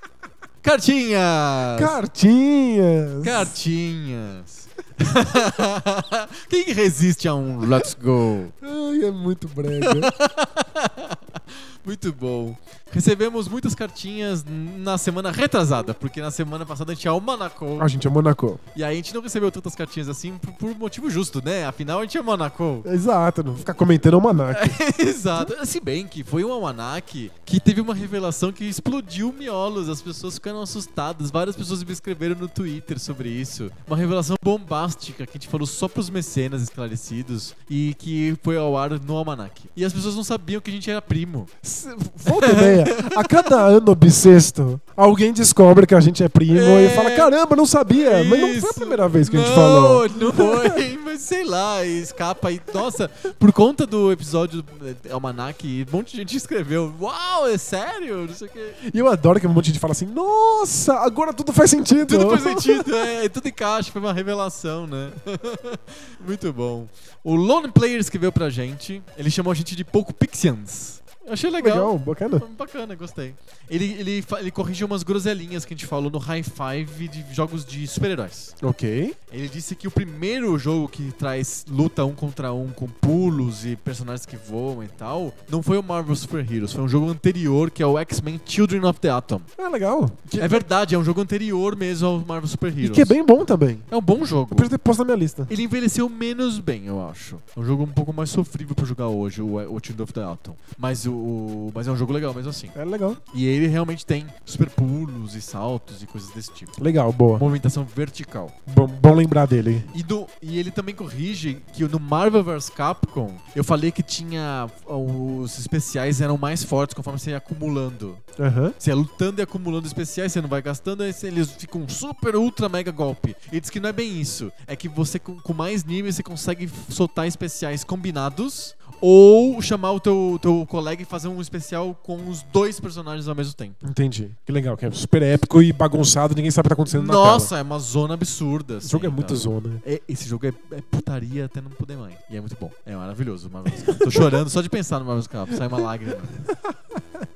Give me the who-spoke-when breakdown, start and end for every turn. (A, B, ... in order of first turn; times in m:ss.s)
0:00.6-0:02.0 A
0:01.8-0:03.5 B
0:03.2-0:08.5 A
0:08.6-0:10.1 B
0:09.8-0:17.9 A
0:17.8-0:18.6 B
0:18.8-0:22.9 A
0:22.8-0:24.8 B
0:24.5-0:41.5 A
0:41.6-0:50.8 B
0:42.3-0:43.6 A
0:46.5-0:47.3 A
0:47.9-0:58.8 A
0:58.8-1:02.9 B
1:02.0-1:18.6 A
1:11.6-1:12.5 B
1:18.6-1:19.2 B
1:19.3-1:29.5 A
1:29.6-1:30.7 B
1:30.4-1:33.2 A
1:32.8-1:33.9 B
1:33.9-1:34.7 A
1:34.5-1:35.5 B
1:35.5-1:42.8 A
1:42.8-1:43.2 B
1:43.3-1:46.8 A
1:46.8-1:47.5 B
1:47.4-1:48.6 A
1:48.7-1:49.9 B
1:49.9-1:58.2 A
1:58.4-1:58.8 B
1:58.8-2:13.8 A
2:13.8-2:17.5 B
2:16.9-2:26.4 A
2:18.8-2:19.8 B
2:23.8-2:24.3 B